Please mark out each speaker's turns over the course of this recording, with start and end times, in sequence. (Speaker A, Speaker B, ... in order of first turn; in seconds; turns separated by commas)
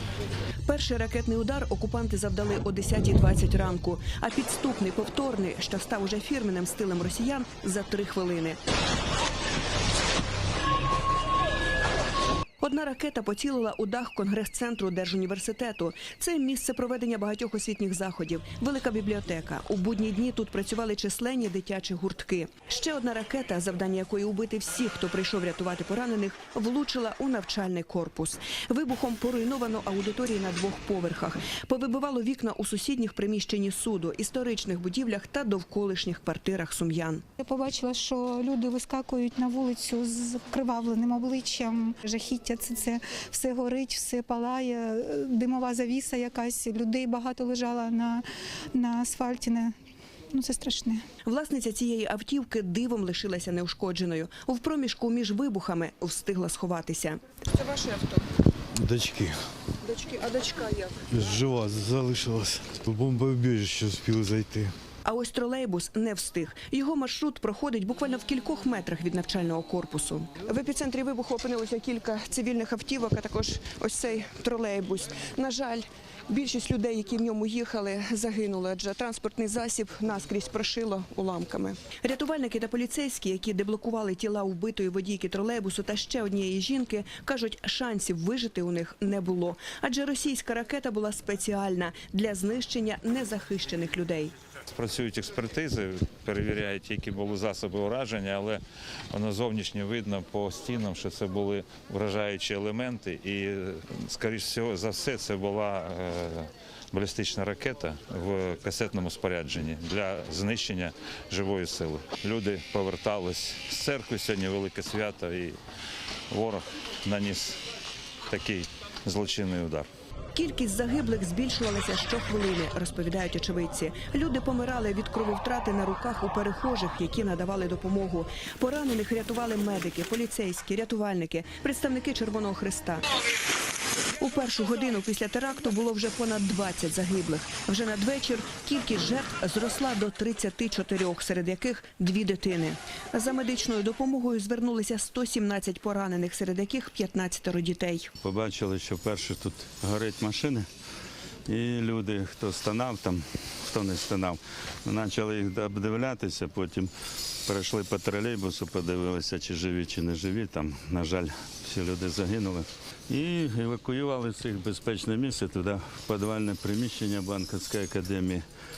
Speaker A: 0.7-8.6, Speaker A: 12.6-37.2, Speaker B: 37.4-49.7, Speaker B: 50.3-51.0, Speaker A: 51.2-58.1, Speaker C: 58.7-59.4, Speaker A: 59.8-61.0, Speaker C: 61.1-64.7, Speaker A: 65.0-94.3, Speaker D: 94.7-98.6, Speaker D: 99.1-115.6, Speaker D: 116.3-117.6, Speaker D: 118.3-119.8, Speaker A: 120.3-133.1, Speaker A: 134.2-148.1, Speaker E: 148.2-150.7, Speaker E: 151.5-168.4